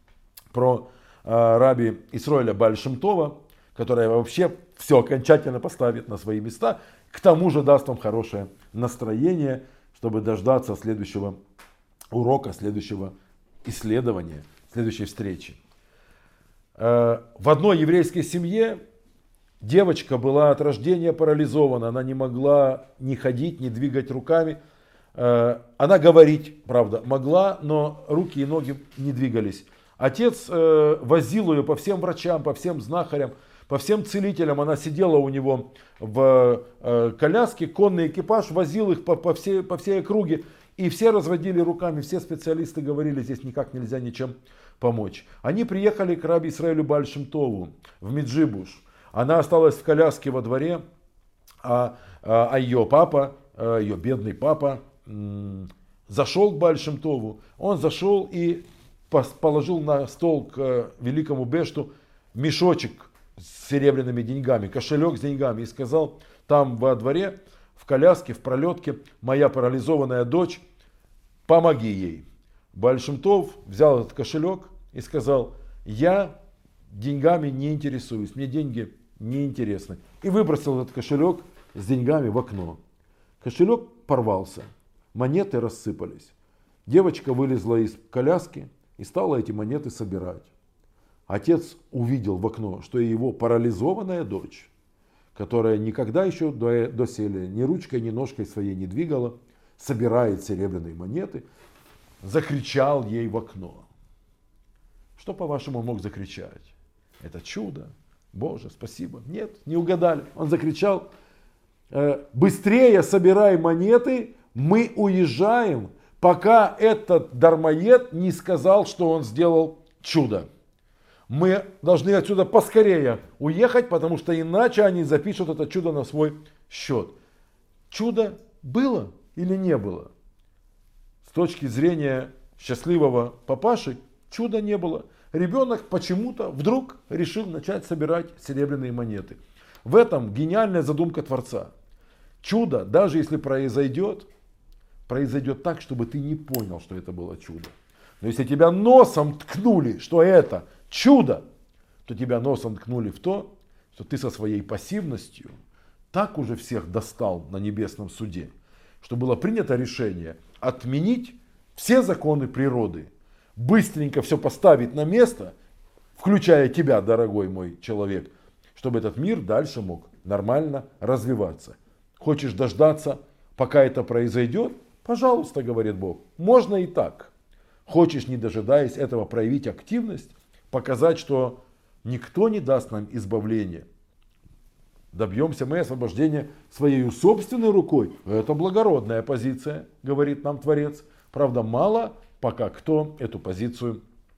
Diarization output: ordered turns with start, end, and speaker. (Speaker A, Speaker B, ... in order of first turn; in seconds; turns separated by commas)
Speaker A: 0.5-11.4, Speaker A: 12.1-13.1, Speaker A: 13.6-15.6, Speaker A: 16.8-18.8, Speaker A: 19.6-24.6, Speaker A: 25.1-50.8, Speaker A: 51.6-70.6, Speaker A: 71.5-76.3, Speaker A: 76.9-82.8, Speaker A: 83.4-86.3, Speaker A: 86.9-90.5, Speaker A: 91.3-94.7, Speaker A: 95.3-101.5, Speaker A: 102.2-103.9, Speaker A: 105.2-111.1, Speaker A: 111.9-120.5, Speaker A: 121.3-127.2, Speaker A: 127.9-130.1, Speaker A: 131.2-141.7, Speaker A: 142.4-144.3, Speaker A: 145.1-151.4, Speaker A: 152.1-155.6, Speaker A: 156.1-165.5, Speaker A: 166.2-177.3, Speaker A: 177.9-183.9, Speaker A: 185.1-194.0